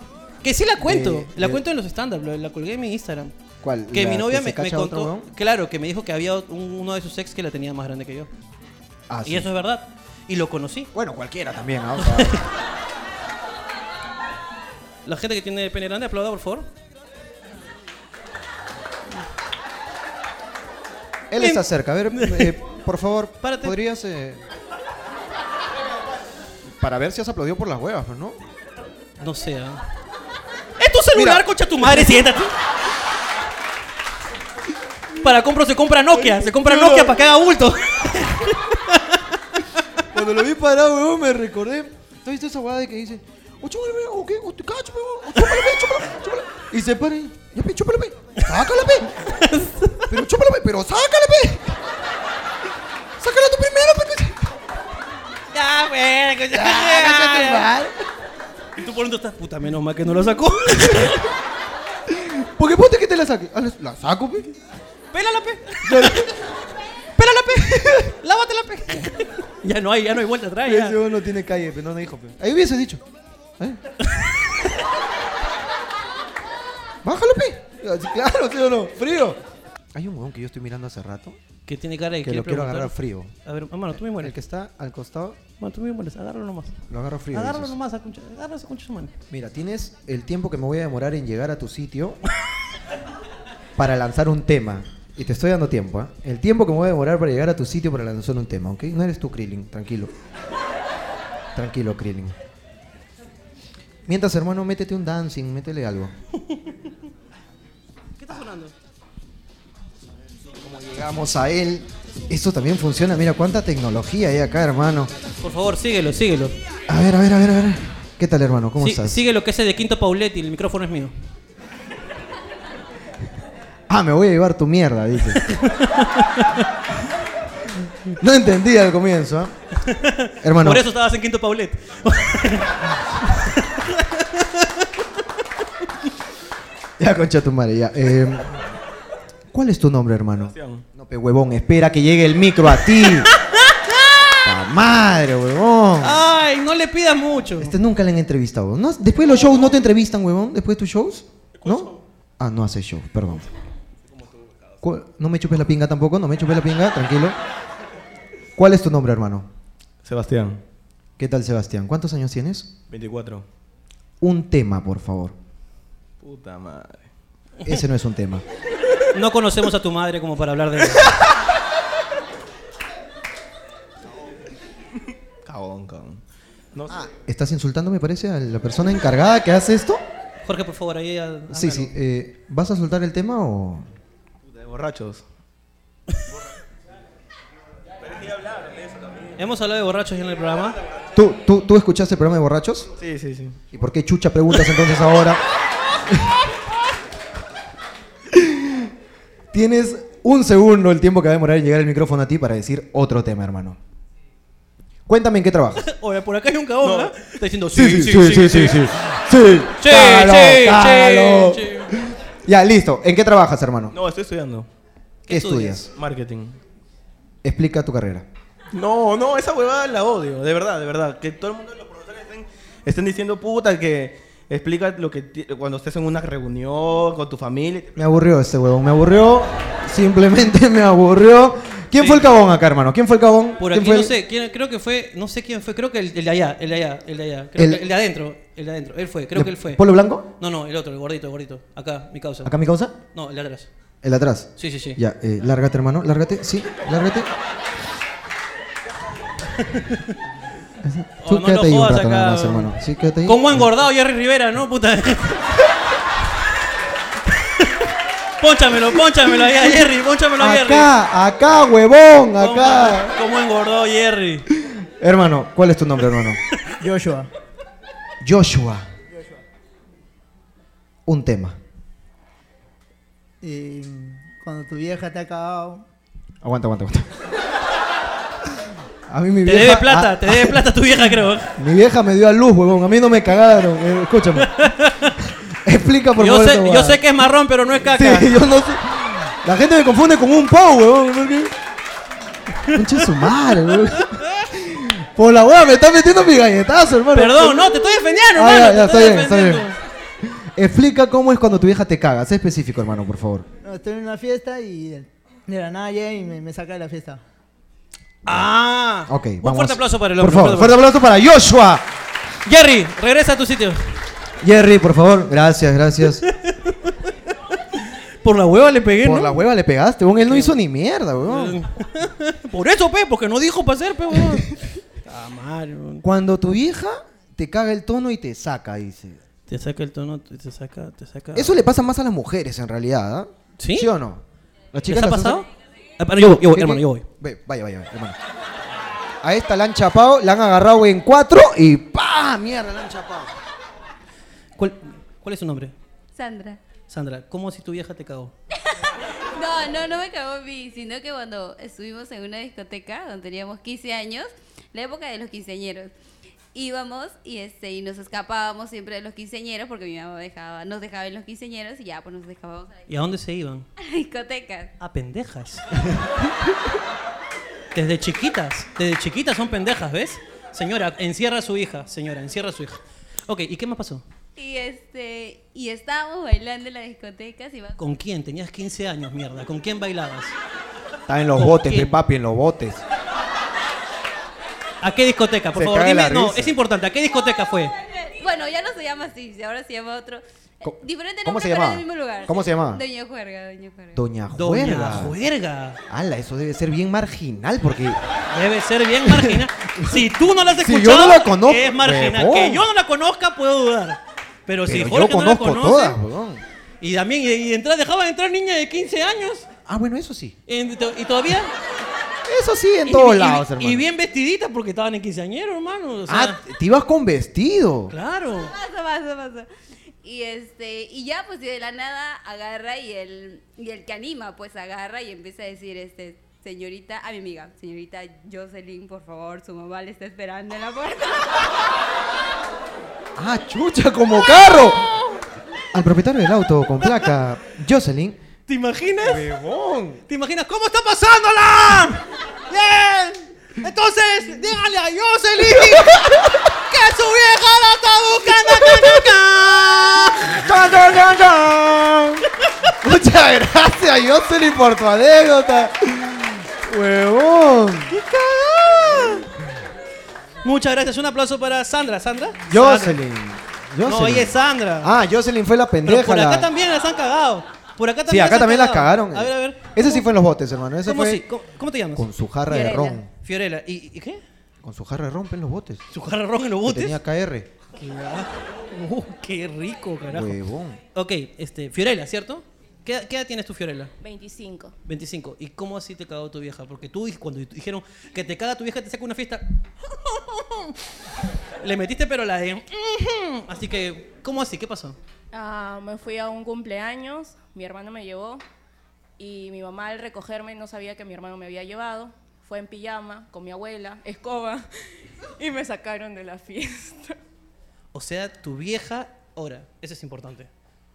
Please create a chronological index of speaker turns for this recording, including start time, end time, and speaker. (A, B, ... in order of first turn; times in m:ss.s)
0:00.4-0:03.3 A
0:00.8-0:01.6 B
0:03.6-0:05.3 B
0:03.9-0:08.3 A
0:09.1-0:09.5 B
0:09.2-0:10.9 A
0:10.9-0:12.5 B
0:12.0-0:12.4 A
0:15.0-0:16.7 A
0:21.3-0:24.4 B
0:21.4-0:22.5 A
0:23.4-0:23.8 A
0:26.7-0:28.4 B
0:29.2-0:29.8 A
0:30.8-0:32.6 A
0:31.1-0:32.4 B
0:35.2-0:40.0 A
0:36.1-0:37.3 B
0:40.1-0:49.2 B
0:49.2-0:50.2 A
0:50.1-0:51.8 B
0:53.2-0:54.6 B
0:55.5-0:57.7 A
0:56.5-0:58.0 B
0:58.8-1:01.3 A
1:00.7-1:01.2 B
1:02.1-1:04.5 B
1:05.1-1:06.3 A
1:05.8-1:06.4 B
1:07.2-1:11.0 A
1:07.5-1:08.1 B
1:10.6-1:13.0 B
1:14.1-1:14.3 A
1:17.0-1:19.4 B
1:19.9-1:21.4 B
1:21.7-1:24.3 A
1:22.2-1:23.3 B
1:24.1-1:25.4 B
1:25.6-1:26.8 A
1:26.9-1:27.7 B
1:27.3-1:29.1 A
1:29.3-1:32.2 B
1:33.8-1:40.1 B
1:41.5-1:42.4 B
1:44.0-1:46.1 B
1:46.5-1:46.7 A
1:48.2-1:48.7 A
1:50.6-1:55.1 B
1:55.4-1:56.6 A
1:56.9-1:59.2 B
1:58.8-2:01.1 A
2:03.9-2:05.4 B
2:05.4-2:06.7 A
2:08.2-2:09.5 B
2:09.8-2:15.0 A
2:10.4-2:10.9 B
2:17.0-2:18.7 B
2:19.5-2:23.3 B
2:20.5-2:20.8 C
2:23.0-2:24.4 A
2:24.4-2:26.2 B
2:26.0-2:27.8 A
2:27.6-2:33.5 B
2:29.4-2:29.8 C
2:31.6-2:32.0 C
2:34.1-2:34.8 C
2:34.8-2:37.4 B
2:38.6-2:39.5 B
2:40.0-2:40.6 C
2:41.2-2:42.7 B
2:42.9-2:43.4 C
2:44.2-2:45.3 B
2:46.2-2:47.1 C
2:47.6-2:48.4 B
2:49.1-2:51.1 A
2:55.4-2:56.2 C
2:56.7-2:57.0 C
2:56.9-3:00.0 B
3:00.4-3:01.9 A
3:01.5-3:03.9 B
3:04.4-3:05.2 C
3:08.0-3:09.4 C
3:09.4-3:10.8 A
3:11.1-3:12.9 B
3:13.0-3:13.6 C
3:13.7-3:15.4 B
3:16.0-3:16.4 B
3:18.3-3:18.9 B
3:19.5-3:23.8 B
3:25.1-3:25.9 B
3:25.8-3:28.9 A
3:26.8-3:27.2 C
3:27.7-3:33.9 B
3:29.8-3:31.9 A
3:33.9-3:34.7 C
3:35.3-3:35.8 A
3:35.3-3:35.9 B
3:35.9-3:36.6 C
3:37.4-3:38.2 B
3:38.7-3:48.0 C
3:48.0-3:54.1 B
3:52.0-3:52.3 A
3:53.6-3:59.8 A
3:57.6-3:57.8 B
3:59.3-4:00.3 B
4:00.4-4:02.6 A
4:02.4-4:03.0 B
4:03.1-4:03.7 A
4:04.0-4:07.3 B
4:04.6-4:05.0 A
4:09.5-4:10.2 A
4:10.8-4:13.7 B
4:11.2-4:12.7 A
4:13.2-4:15.6 A
4:17.3-4:20.9 A
4:19.3-4:23.2 B
4:22.4-4:24.5 A
4:24.5-4:26.4 B
4:26.8-4:27.3 D
4:28.2-4:28.9 B
4:31.0-4:31.6 B
4:33.4-4:35.8 D
4:36.4-4:37.3 B
4:39.1-4:40.7 B
4:39.4-4:41.6 A
4:41.6-4:47.0 B
4:44.4-4:45.2 A
4:46.2-4:48.3 A
4:47.8-4:51.5 B
4:52.6-4:53.3 A
4:52.7-4:59.7 B
4:53.9-4:54.5 A
4:57.1-4:59.8 A
5:00.2-5:03.4 B
5:03.6-5:07.2 D
5:08.2-5:10.8 A
5:09.1-5:11.8 B
5:12.4-5:13.9 A
5:14.4-5:16.3 B
5:16.2-5:17.1 A
5:18.2-5:19.4 A
5:19.0-5:21.6 B
5:20.2-5:20.6 A
5:21.2-5:26.0 A
5:24.1-5:24.4 B
5:26.0-5:29.2 B
5:29.5-5:31.6 A
5:31.3-5:35.4 B
5:33.6-5:33.9 A
5:34.9-5:35.5 A
5:36.0-5:37.0 A
5:36.3-5:38.2 B
5:39.2-5:43.3 B
5:44.6-5:45.7 A
5:46.1-5:46.6 E
5:46.9-5:48.3 A
5:48.7-5:55.9 E
5:56.5-6:02.9 E
6:02.9-6:03.7 A
6:03.8-6:04.7 E
6:04.8-6:05.7 A
6:07.7-6:14.0 A
6:14.4-6:17.8 E
6:17.8-6:20.3 A
6:21.1-6:22.8 B
6:21.4-6:22.0 A
6:24.8-6:27.7 A
6:25.5-6:26.5 B
6:28.0-6:34.0 E
6:30.6-6:32.8 B
6:33.9-6:35.2 B
6:34.3-6:35.8 A
6:35.9-6:38.0 B
6:38.3-6:46.0 A
6:39.0-6:42.7 B
6:44.6-6:46.4 B
6:46.8-6:49.5 A
6:49.6-6:50.4 B
6:50.5-6:51.5 A
6:52.2-6:53.8 B
6:52.8-6:56.4 A
6:56.1-6:57.9 B
6:57.9-6:58.5 A
6:58.4-6:59.5 E
7:00.0-7:11.6 E
7:13.2-7:14.9 B
7:15.7-7:18.2 B
7:18.5-7:19.3 A
7:19.0-7:20.0 B
7:20.1-7:30.4 A
7:25.4-7:26.5 B
7:28.3-7:29.2 B
7:30.3-7:38.0 B
7:37.9-7:39.3 A
7:38.9-7:39.2 B
7:40.4-7:43.0 A
7:42.5-7:46.5 B
7:43.8-7:44.9 A
7:45.8-7:49.8 A
7:48.1-7:51.2 B
7:50.8-7:52.1 A
7:51.9-7:53.1 B
7:52.5-7:53.0 F
7:53.1-7:54.2 A
7:54.6-7:55.8 B
7:55.9-7:57.0 A
7:56.6-7:57.5 B
7:57.7-8:00.4 A
8:00.1-8:00.8 B
8:00.9-8:03.9 A
8:04.0-8:04.7 F
8:04.8-8:10.8 A
8:11.6-8:15.0 A
8:15.3-8:18.4 F
8:19.2-8:24.7 F
8:25.4-8:27.2 F
8:27.9-8:30.5 A